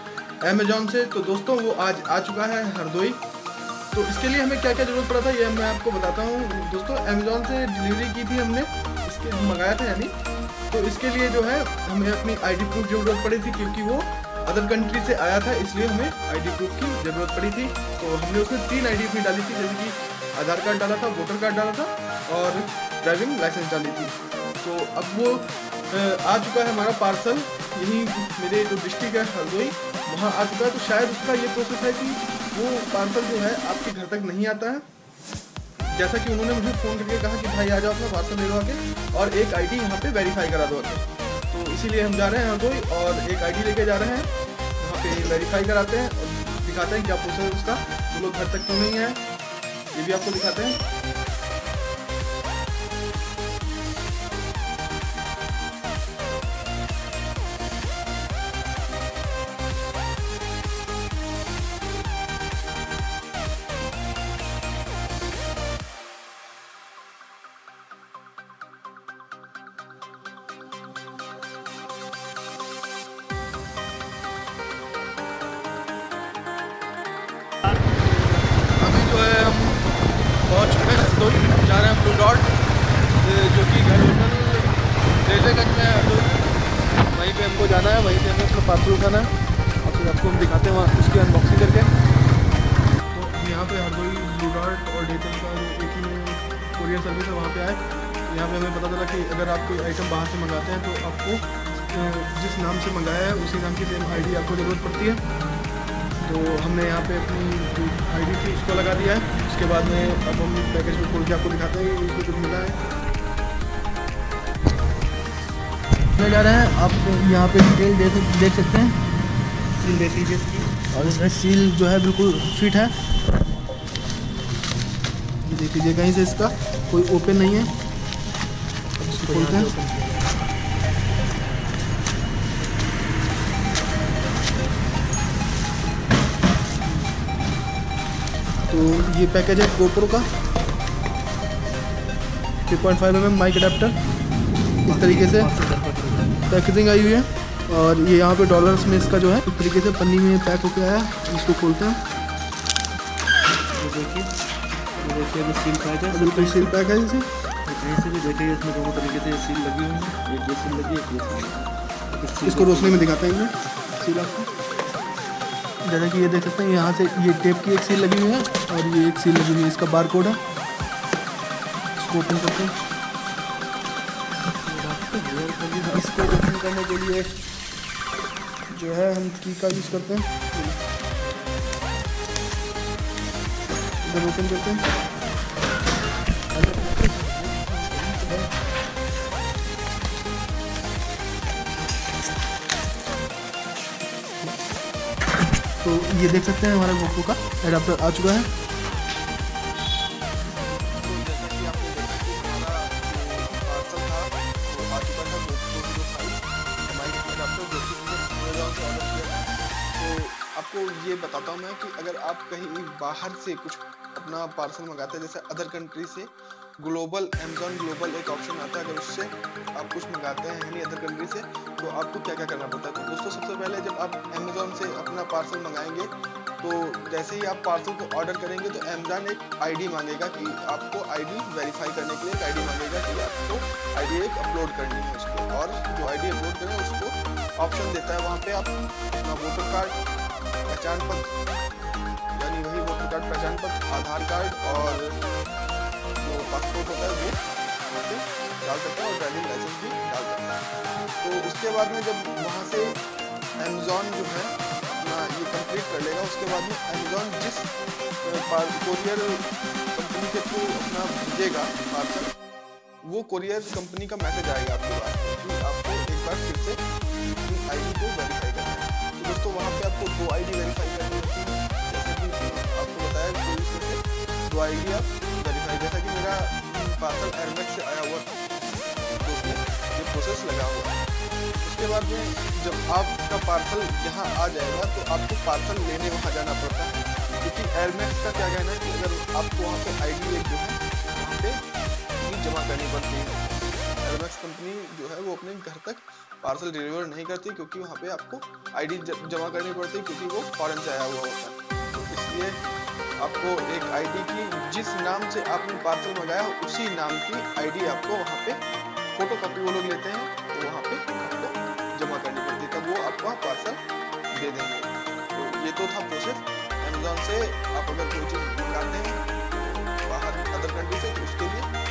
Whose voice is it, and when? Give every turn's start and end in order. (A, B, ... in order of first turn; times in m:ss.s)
0:00.4-0:03.2 A
0:03.9-0:10.1 A
0:10.7-0:34.9 A
0:35.9-0:49.2 A
0:49.9-0:50.8 A
1:18.7-1:19.8 A
1:20.5-1:22.5 A
1:23.2-1:26.5 A
1:27.1-1:29.3 A
1:29.8-1:31.9 A
1:33.1-1:45.2 A
1:46.2-1:52.8 A
1:56.1-1:59.0 A
1:59.8-2:01.3 B
2:00.9-2:02.9 A
2:05.4-2:07.7 A
2:09.0-2:10.4 B
2:09.1-2:09.7 A
2:18.7-2:20.3 A
2:22.7-2:24.0 A
2:24.8-2:26.4 B
2:24.8-2:25.5 A
2:26.5-2:32.0 A
2:33.8-2:34.3 B
2:35.0-2:36.7 B
2:36.1-2:37.3 A
2:37.6-2:43.1 B
2:42.4-2:44.5 A
2:45.8-2:50.4 A
2:52.0-2:52.7 A
2:54.6-2:56.0 B
2:55.8-2:57.4 A
2:58.7-3:00.8 A
3:04.0-3:04.8 A
3:06.6-3:07.4 B
3:06.6-3:08.5 A
3:15.8-3:18.5 A
3:20.9-4:00.0 A
4:00.7-4:01.3 A
4:02.3-4:05.2 A
4:06.2-4:10.6 A
4:11.2-4:13.0 A
4:13.6-4:17.7 A
4:18.2-4:22.3 A
4:23.0-4:26.8 A
4:27.4-4:38.3 A
4:39.2-4:41.0 A
4:41.6-4:51.6 A
4:52.2-5:02.6 A
5:03.2-5:08.6 A
5:09.1-5:13.8 A
5:14.3-5:21.7 A